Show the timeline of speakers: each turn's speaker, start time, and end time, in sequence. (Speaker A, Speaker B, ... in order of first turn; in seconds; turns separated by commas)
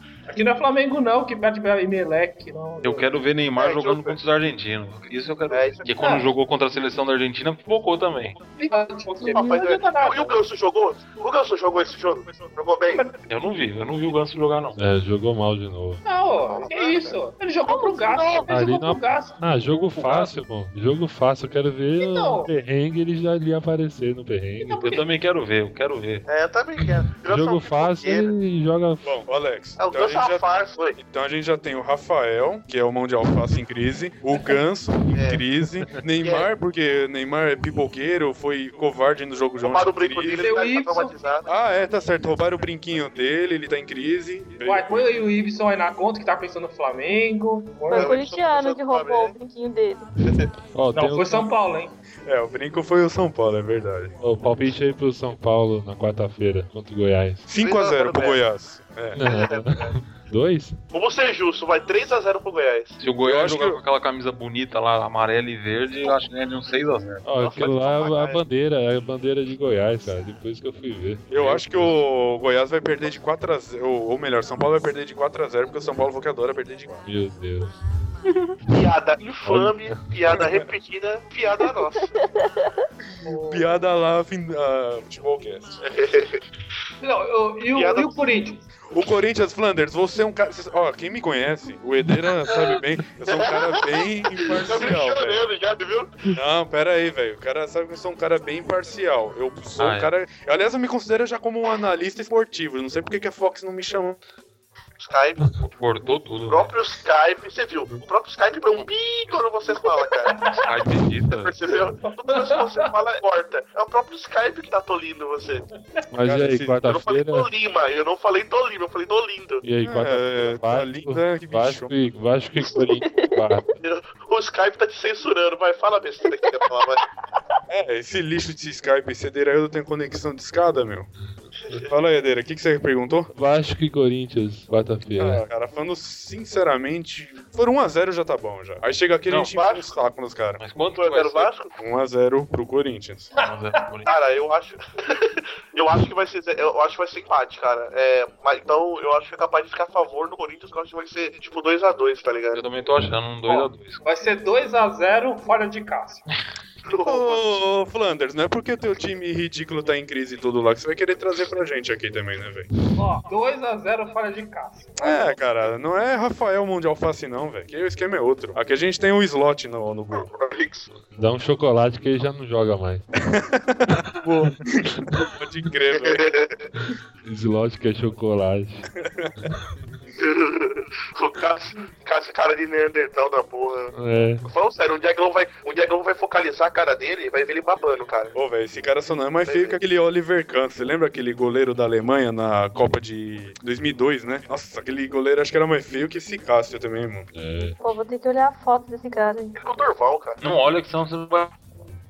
Speaker A: 0.3-3.1, Speaker B: 2.8-8.4, Speaker C: 3.6-4.2, Speaker C: 5.5-5.8, Speaker A: 6.0-6.3, Speaker A: 8.6-10.4, Speaker D: 9.2-9.6, Speaker C: 9.3-13.1, Speaker B: 13.3-14.8, Speaker E: 14.8-16.0, Speaker A: 16.0-19.4, Speaker C: 16.5-18.5, Speaker E: 18.5-24.8, Speaker B: 20.0-20.4, Speaker A: 22.0-22.5, Speaker A: 24.6-25.0, Speaker B: 24.8-26.2, Speaker C: 26.3-28.3, Speaker E: 27.3-29.2, Speaker F: 29.0-40.5, Speaker C: 29.8-31.0, Speaker C: 35.1-35.4, Speaker C: 36.2-36.5, Speaker C: 39.6-41.5, Speaker A: 40.4-41.1, Speaker F: 41.5-45.1, Speaker A: 44.6-48.2, Speaker D: 47.9-50.1, Speaker C: 47.9-49.3, Speaker C: 50.2-50.5, Speaker E: 50.7-51.5, Speaker A: 50.9-51.9, Speaker F: 52.2-54.1, Speaker E: 54.2-57.5, Speaker F: 57.5-59.2, Speaker C: 57.6-58.4, Speaker E: 59.1-60.8, Speaker C: 59.2-59.9, Speaker C: 60.9-63.0, Speaker B: 63.0-67.2, Speaker F: 63.2-63.8, Speaker E: 67.2-71.9, Speaker C: 67.4-68.4, Speaker F: 71.3-77.0, Speaker E: 77.0-77.7, Speaker D: 78.3-78.5, Speaker C: 78.7-82.1, Speaker E: 79.4-80.0, Speaker D: 81.6-82.9, Speaker A: 83.2-83.8, Speaker F: 83.4-85.8, Speaker C: 85.8-86.4, Speaker A: 87.0-88.6, Speaker C: 87.7-88.2, Speaker F: 88.9-95.5, Speaker C: 93.3-94.0, Speaker C: 94.6-96.2, Speaker F: 96.3-104.2, Speaker B: 99.8-100.1, Speaker C: 105.0-105.7, Speaker B: 105.7-106.7, Speaker C: 106.5-110.4, Speaker A: 110.2-110.8, Speaker B: 110.5-111.5, Speaker C: 111.3-115.6, Speaker A: 112.0-112.9, Speaker E: 116.1-117.5, Speaker C: 116.3-119.6, Speaker F: 116.3-116.8, Speaker E: 119.6-123.6, Speaker F: 119.8-122.0, Speaker D: 122.6-123.5, Speaker C: 123.8-127.0, Speaker D: 126.2-126.6, Speaker F: 127.7-131.1, Speaker F: 131.9-133.3, Speaker E: 133.3-135.4, Speaker F: 135.2-140.6, Speaker B: 139.3-139.5, Speaker C: 139.5-139.8, Speaker B: 140.6-141.5, Speaker C: 141.0-141.7, Speaker F: 141.8-143.3, Speaker B: 143.4-144.1, Speaker C: 144.1-152.6, Speaker B: 152.5-154.0, Speaker A: 153.4-156.2, Speaker C: 156.8-157.6, Speaker F: 157.0-162.7, Speaker A: 162.9-165.3, Speaker F: 165.0-170.3, Speaker C: 170.1-170.9, Speaker E: 171.1-173.1, Speaker F: 173.3-176.2, Speaker C: 175.9-176.7, Speaker E: 177.2-178.9, Speaker F: 179.0-179.3, Speaker C: 180.2-188.3, Speaker E: 183.9-184.4, Speaker F: 188.3-197.3, Speaker C: 189.4-189.8, Speaker E: 197.3-197.8, Speaker D: 197.7-199.6, Speaker C: 199.6-200.4, Speaker B: 200.4-201.5